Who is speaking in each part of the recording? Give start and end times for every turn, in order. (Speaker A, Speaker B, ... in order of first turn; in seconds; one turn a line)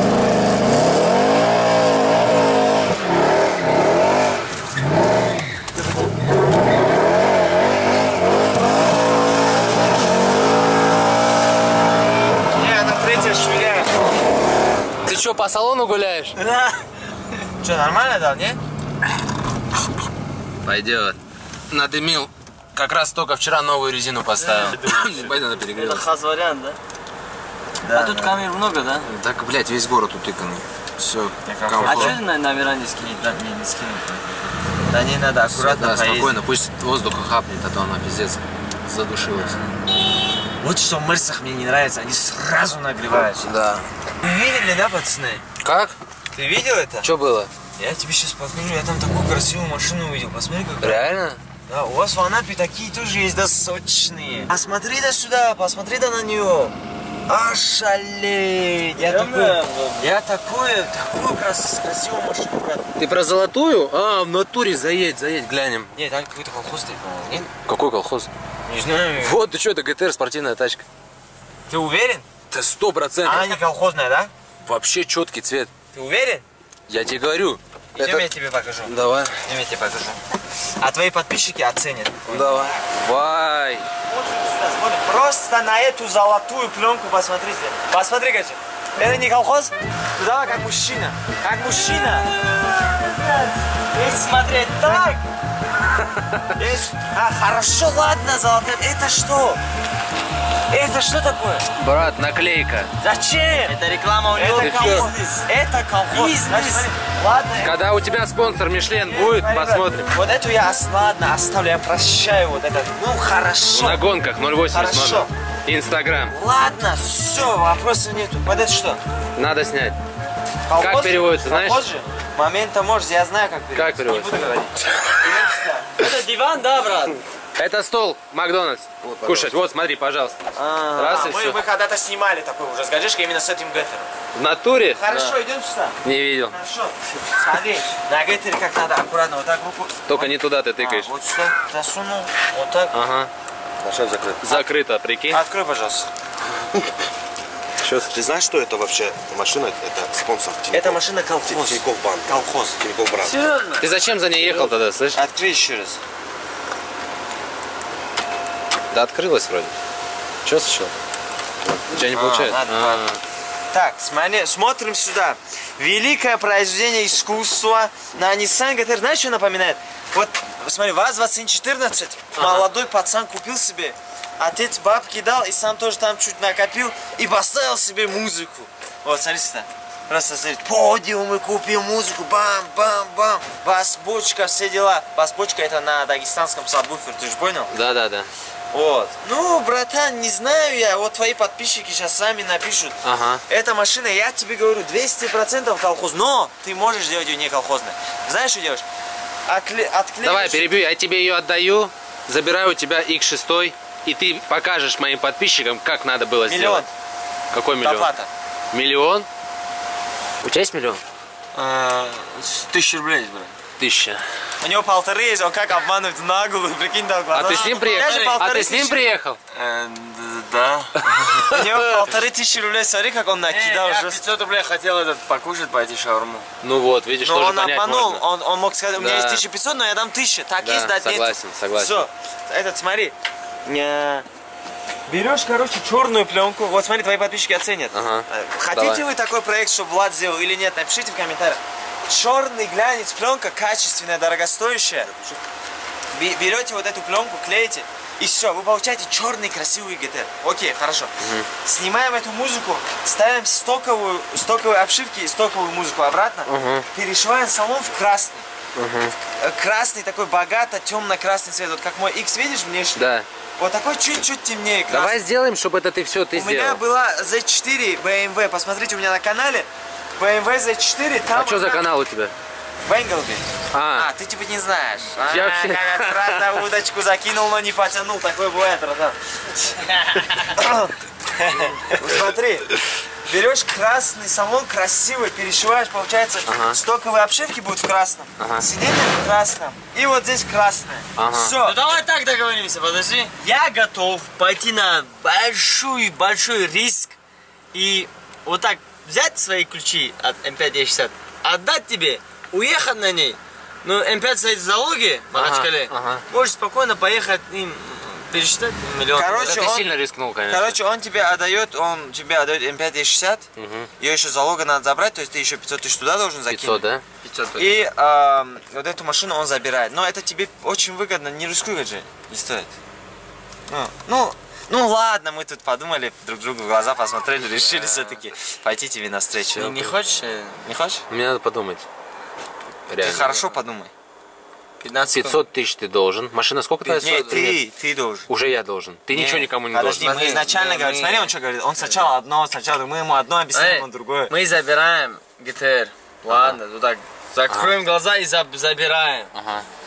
Speaker A: 12.5-14.1
Speaker B: 15.1-16.4
Speaker C: 16.4-16.9
Speaker A: 17.6-18.6
Speaker B: 20.6-21.2
Speaker B: 21.7-26.1
Speaker C: 24.4-26.8
Speaker A: 27.8-28.4
Speaker C: 27.9-29.1
Speaker B: 29.1-32.2
Speaker A: 31.4-32.2
Speaker C: 31.8-33.2
Speaker A: 33.0-36.4
Speaker B: 35.5-39.7
Speaker A: 39.3-39.7
Speaker A: 40.6-43.5
Speaker B: 43.4-43.9
Speaker A: 44.2-45.4
Speaker B: 45.6-45.9
Speaker A: 46.3-47.1
Speaker B: 47.0-47.5
Speaker A: 47.8-51.0
Speaker B: 50.8-51.4
Speaker A: 51.7-56.7
Speaker A: 57.3-62.9
Speaker C: 59.0-60.1
Speaker B: 63.0-65.9
Speaker A: 65.9-67.5
Speaker B: 67.5-68.3
Speaker A: 68.7-69.4
Speaker B: 69.2-70.8
Speaker A: 71.7-72.3
Speaker B: 72.5-73.6
Speaker A: 73.2-74.3
Speaker B: 74.6-75.7
Speaker A: 75.9-76.4
Speaker B: 76.9-78.3
Speaker A: 78.0-78.9
Speaker B: 78.8-79.4
Speaker A: 79.5-80.2
Speaker A: 80.8-82.7
Speaker B: 82.3-83.9
Speaker A: 84.1-92.3
Speaker C: 91.7-95.2
Speaker A: 94.8-95.2
Speaker B: 96.0-96.5
Speaker A: 96.5-99.6
Speaker A: 100.7-101.7
Speaker B: 101.8-102.9
Speaker A: 103.0-103.7
Speaker C: 103.6-105.4
Speaker A: 104.3-107.8
Speaker B: 104.5-105.1
Speaker C: 106.1-106.9
Speaker B: 107.6-110.1
Speaker A: 108.9-114.1
Speaker B: 113.7-116.3
Speaker A: 114.7-115.3
Speaker A: 116.3-119.0
Speaker B: 119.3-120.0
Speaker A: 120.7-126.0
Speaker B: 120.8-121.8
Speaker B: 123.7-124.4
Speaker C: 126.0-127.2
Speaker B: 127.6-130.4
Speaker D: 129.0-129.6
Speaker A: 130.5-134.1
Speaker B: 130.9-131.6
Speaker B: 134.3-135.0
Speaker A: 134.9-136.0
Speaker C: 135.1-135.4
Speaker B: 136.0-136.6
Speaker A: 136.5-142.9
Speaker B: 140.1-141.1
Speaker B: 142.9-143.3
Speaker D: 143.8-144.5
Speaker B: 144.4-145.4
Speaker A: 145.3-146.1
Speaker B: 147.8-148.1
Speaker D: 148.1-153.5
Speaker A: 150.7-152.8
Speaker C: 153.2-153.8
Speaker B: 153.8-155.2
Speaker A: 155.1-156.0
Speaker B: 158.9-159.7
Speaker B: 160.4-160.9
Speaker B: 161.9-163.2
Speaker A: 162.1-163.0
Speaker A: 163.7-187.7
Speaker B: 172.4-172.6
Speaker B: 187.7-188.3
Speaker A: 188.7-198.8
Speaker B: 193.0-193.4
Speaker A: 199.4-200.8
Speaker B: 200.2-206.9
Speaker A: 206.4-206.9
Speaker B: 207.5-208.1
Speaker A: 207.8-208.3
Speaker B: 208.7-209.3
Speaker B: 210.4-211.0
Speaker A: 211.6-211.9
Speaker C: 211.6-213.5
Speaker B: 213.8-214.2
Speaker A: 214.6-219.1
Speaker B: 217.3-219.4
Speaker C: 217.5-218.5
Speaker C: 219.5-221.0
Speaker B: 221.1-221.6
Speaker A: 221.3-224.2
Speaker C: 223.5-226.5
Speaker B: 226.6-228.2
Speaker A: 227.2-234.2
Speaker B: 229.0-229.4
Speaker B: 230.6-232.1
Speaker A: 235.1-245.1
Speaker B: 237.9-239.0
Speaker D: 245.1-245.4
Speaker A: 246.1-258.4
Speaker B: 251.2-251.5
Speaker B: 256.4-256.9
Speaker B: 258.7-259.1
Speaker A: 259.2-263.1
Speaker B: 262.9-263.2
Speaker A: 263.6-265.2
Speaker B: 264.9-266.8
Speaker A: 266.3-271.9
Speaker B: 271.3-272.3
Speaker A: 272.8-279.7
Speaker B: 273.7-274.1
Speaker B: 275.3-276.4
Speaker C: 279.9-280.5
Speaker A: 280.4-280.9
Speaker A: 281.5-291.8
Speaker B: 286.5-286.8
Speaker B: 288.4-288.6
Speaker B: 291.1-291.5
Speaker C: 291.6-297.1
Speaker C: 297.7-309.7
Speaker B: 305.3-306.2
Speaker A: 309.1-309.9
Speaker B: 309.4-310.8
Speaker A: 310.5-313.5
Speaker B: 313.6-313.9
Speaker A: 314.0-316.8
Speaker B: 316.5-317.0
Speaker C: 317.2-317.8
Speaker A: 317.6-322.7
Speaker A: 323.7-329.7
Speaker C: 327.4-328.2
Speaker C: 329.6-330.6
Speaker B: 329.6-329.9
Speaker A: 330.6-331.0
Speaker B: 331.1-331.8
Speaker B: 332.9-333.3
Speaker A: 333.0-333.9
Speaker C: 333.2-333.5
Speaker C: 334.8-335.4
Speaker B: 335.1-337.6
Speaker C: 336.8-337.5
Speaker A: 337.0-338.3
Speaker B: 338.3-340.1
Speaker A: 339.1-344.3
Speaker C: 339.9-342.1
Speaker C: 343.5-349.3
Speaker B: 346.3-346.6
Speaker B: 347.5-347.7
Speaker B: 349.3-349.6